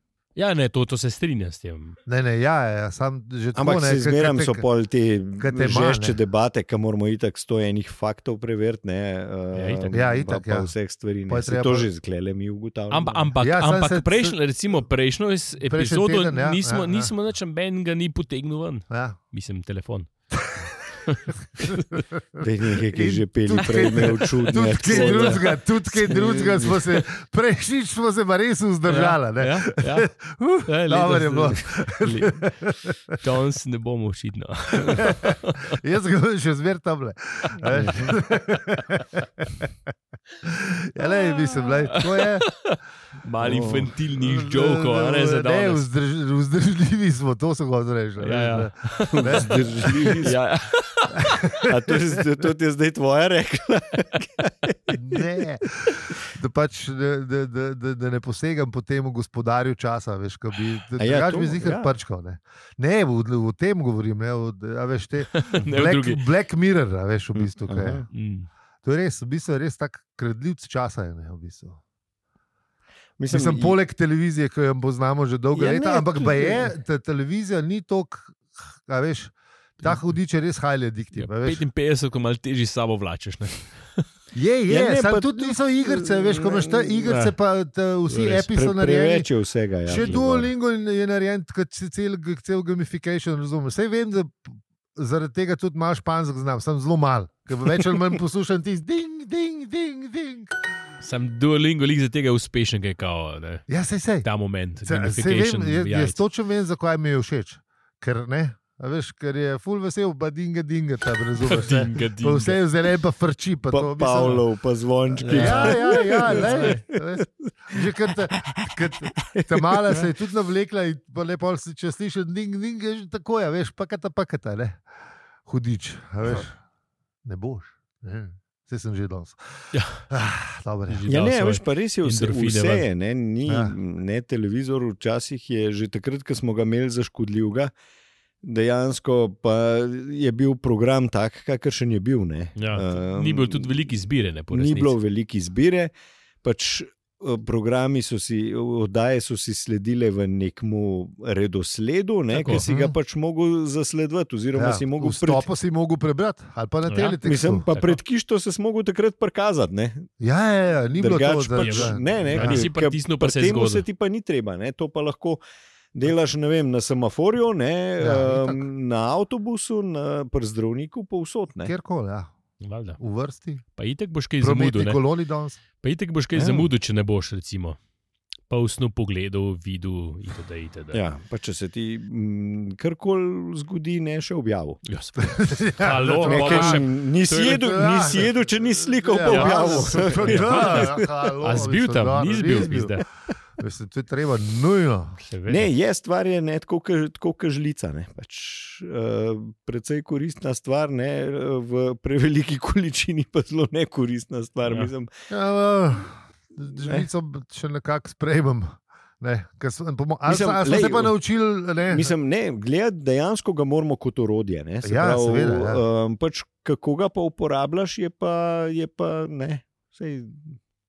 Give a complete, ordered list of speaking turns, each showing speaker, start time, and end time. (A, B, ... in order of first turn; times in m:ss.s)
0:00.3-0:02.0 A
0:02.0-0:04.6 B
0:03.5-0:13.3 C
0:05.4-0:06.2 B
0:09.5-0:10.0 A
0:09.9-0:11.9 B
0:12.9-0:20.1 A
0:13.4-0:14.4 B
0:15.6-0:17.1 B
0:18.9-0:19.2 B
0:20.3-0:21.0 B
0:21.1-0:21.8 A
0:21.6-0:33.2 B
0:22.4-0:27.0 C
0:24.6-0:25.4 A
0:28.9-0:30.1 A
0:30.6-0:32.4 A
0:33.2-0:35.8 A
0:35.0-0:39.7 B
0:37.6-0:38.1 C
0:40.4-0:42.5 B
0:41.0-0:45.9 A
0:43.4-0:43.9 C
0:44.1-0:50.2 B
0:48.2-0:51.4 A
0:49.1-0:50.4 C
0:51.2-0:52.2 B
0:51.6-0:55.2 C
0:54.9-1:08.0 B
1:01.0-1:01.9 C
1:05.3-1:06.2 A
1:07.3-1:08.0 C
1:08.1-1:08.5 A
1:08.8-1:11.8 B
1:13.2-1:13.8 C
1:13.3-1:21.6 B
1:15.5-1:16.7 C
1:21.1-1:24.0 A
1:24.3-1:29.3 B
1:24.7-1:27.3 C
1:28.2-1:30.5 C
1:29.8-1:40.6 B
1:41.0-1:43.6 A
1:43.7-1:44.3 B
1:44.2-1:46.2 A
1:44.8-1:54.4 B
1:51.4-1:52.6 A
1:53.7-1:58.7 C
1:55.1-1:56.8 A
1:55.3-2:04.8 B
1:59.2-2:00.0 C
2:05.4-2:06.6 B
2:07.2-2:11.0 B
2:09.7-2:10.0 A
2:10.9-2:12.9 A
2:11.1-2:17.7 C
2:13.5-2:13.7 B
2:18.4-2:24.0 C
2:22.6-2:25.0 A
2:24.5-2:25.9 C
2:26.4-2:35.5 C
2:32.3-2:32.6 A
2:32.5-2:32.9 B
2:34.5-2:37.6 B
2:36.9-2:37.2 A
2:37.2-2:40.1 C
2:37.7-2:38.0 A
2:40.2-2:42.7 B
2:41.0-2:45.4 C
2:41.6-2:43.8 A
2:45.9-2:51.7 C
2:48.0-2:48.6 B
2:51.6-2:52.3 B
2:52.6-2:53.0 A
2:53.0-2:53.6 B
2:53.7-2:55.0 A
2:54.4-2:55.6 B
2:55.8-2:57.8 A
2:56.3-2:56.7 C
2:58.5-3:01.0 A
3:00.9-3:04.8 C
3:04.8-3:07.5 A
3:05.2-3:13.0 B
3:06.2-3:11.0 C
3:09.2-3:13.0 A
3:13.6-3:15.2 B
3:15.2-3:15.7 A
3:15.5-3:25.1 C
3:25.3-3:32.1 B
3:26.8-3:27.1 C
3:30.2-3:31.1 C
3:31.8-3:40.6 C
3:34.8-3:35.8 B